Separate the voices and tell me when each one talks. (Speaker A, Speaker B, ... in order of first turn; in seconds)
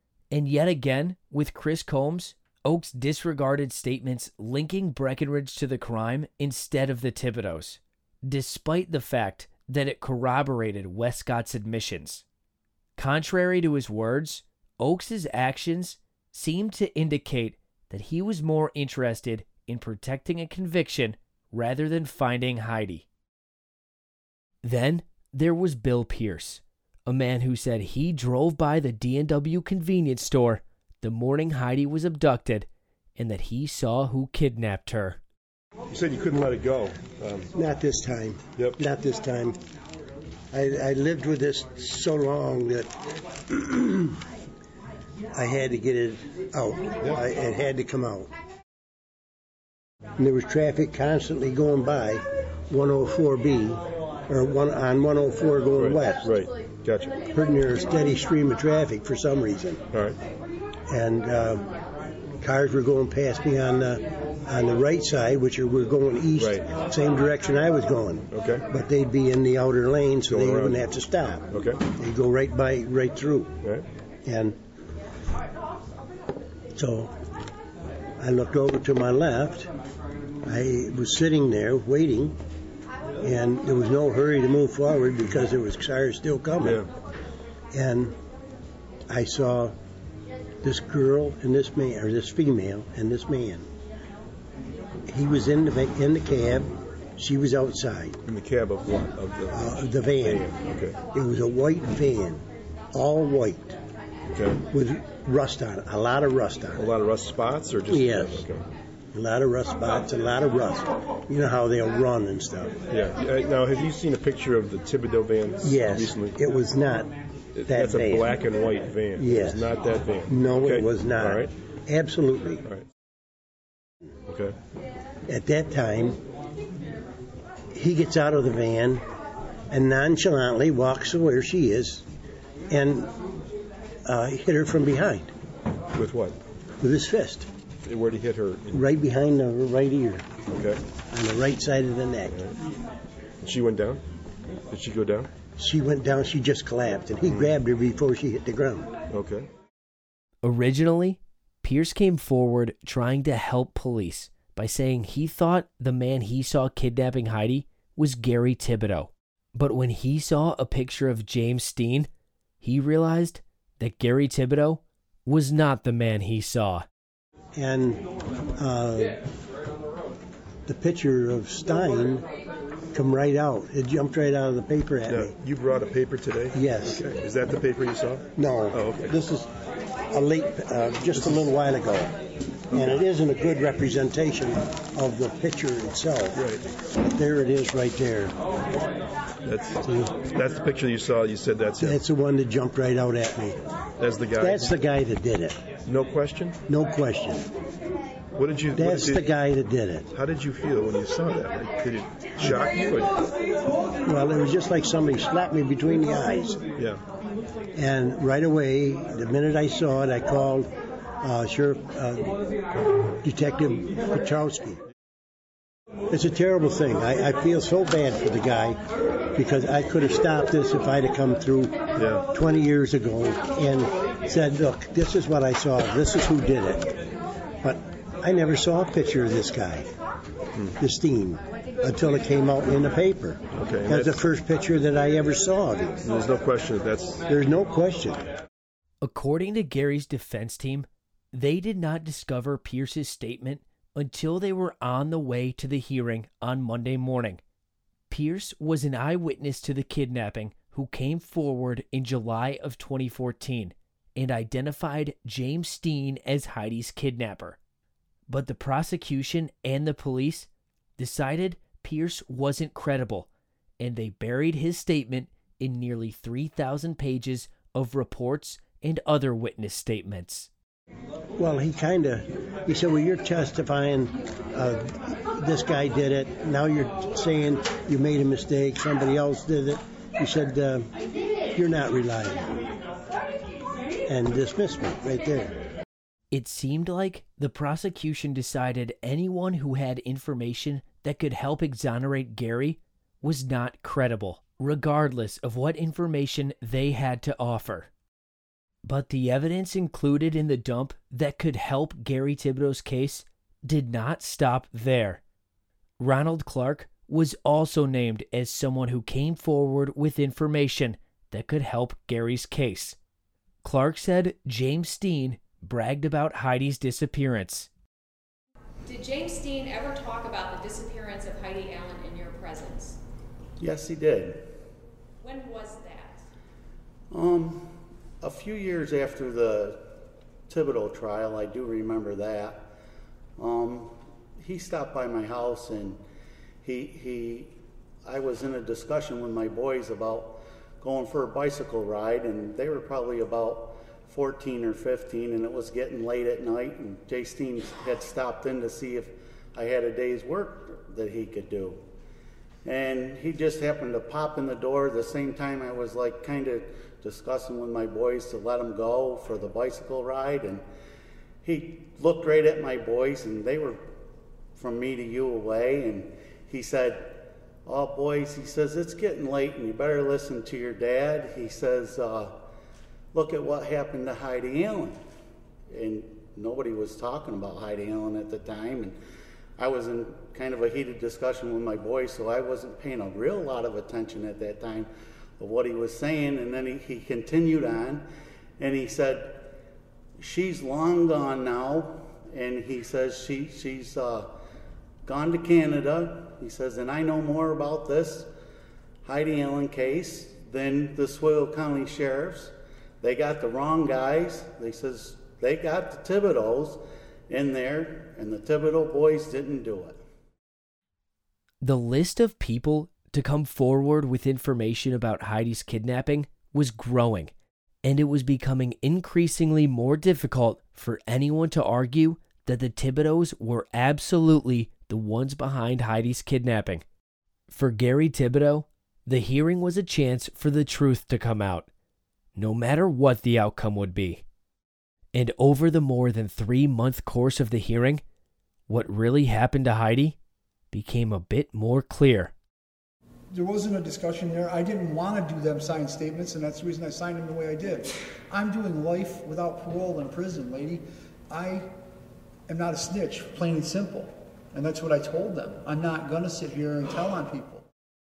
Speaker A: 0.3-12.2, 13.0-23.0, 24.6-35.2, 150.4-162.1, 162.6-166.9, 239.0-247.4, 248.1-257.6, 258.3-263.3, 263.8-270.5, 286.3-297.9, 298.8-305.2, 306.0-313.0, 313.6-317.7, 411.6-426.8, 427.5-431.7, 432.4-434.2, 435.1-438.0, 438.7-440.2, 440.7-442.3
Speaker B: 35.9-37.5, 38.5-38.8, 47.0-47.3, 55.7-57.2, 59.9-60.2, 66.3-66.8, 68.3-68.6, 70.2-71.8, 86.6-86.9, 98.2-101.1, 104.4-104.6, 106.7-108.7, 112.9-116.4, 117.5-121.5, 124.3-124.5, 135.9-136.4, 137.8-138.9, 140.5-140.8, 142.3-142.5, 143.4-144.0, 144.7-145.3, 147.2-147.6, 149.1-149.5, 175.0-179.2, 181.1-181.5, 186.3-186.6, 189.4-192.0, 194.0-194.8, 195.9-196.6, 198.3-199.4, 200.1-203.1, 221.9-222.3, 233.5-234.2, 236.0-237.2
Speaker C: 37.5-39.6, 40.5-42.9, 43.5-44.1, 45.3-48.3, 50.2-56.3, 57.2-59.8, 60.9-61.6, 62.4-71.4, 72.0-73.5, 74.2-74.6, 76.7-77.1, 78.2-79.7, 80.4-82.4, 83.2-86.8, 87.7-88.1, 89.1-89.7, 90.6-93.7, 95.1-98.2, 99.5-100.5, 101.0-103.8, 104.7-106.9, 107.9-108.4, 109.1-112.8, 115.6-117.1, 117.7-118.3, 119.2-119.6, 120.3-122.6, 125.3-126.2, 127.7-129.0, 129.7-132.0, 132.7-133.1, 134.0-135.3, 136.8-137.5, 138.7-140.2, 141.1-142.3, 145.6-148.9, 167.6-168.0, 168.6-169.2, 170.7-172.2, 172.9-175.3, 176.5-177.1, 178.4-179.5, 180.1-182.1, 182.7-186.4, 187.1-188.3, 189.8-190.2, 191.8-193.6, 194.4-195.6, 196.7-197.5, 198.7-200.1, 202.4-202.7, 204.0-206.6, 207.7-210.7, 211.2-212.3, 213.2-214.8, 216.1-218.8, 219.3-221.8, 222.3-226.9, 227.6-229.9, 230.8-236.0, 237.3-238.3, 271.4-280.9, 281.5-282.6, 284.1-285.6
Speaker D: 318.8-323.0, 325.2-326.2
Speaker E: 323.6-324.5, 327.1-329.8, 330.5-332.7, 333.4-336.0, 336.6-337.5, 338.1-351.8, 352.6-360.6, 361.4-363.8, 364.6-372.3, 373.1-375.0, 375.7-379.0, 379.6-388.0, 388.6-389.5, 390.2-394.3, 395.1-398.3, 399.0-410.0
Speaker F: 443.3-451.6, 452.5-457.6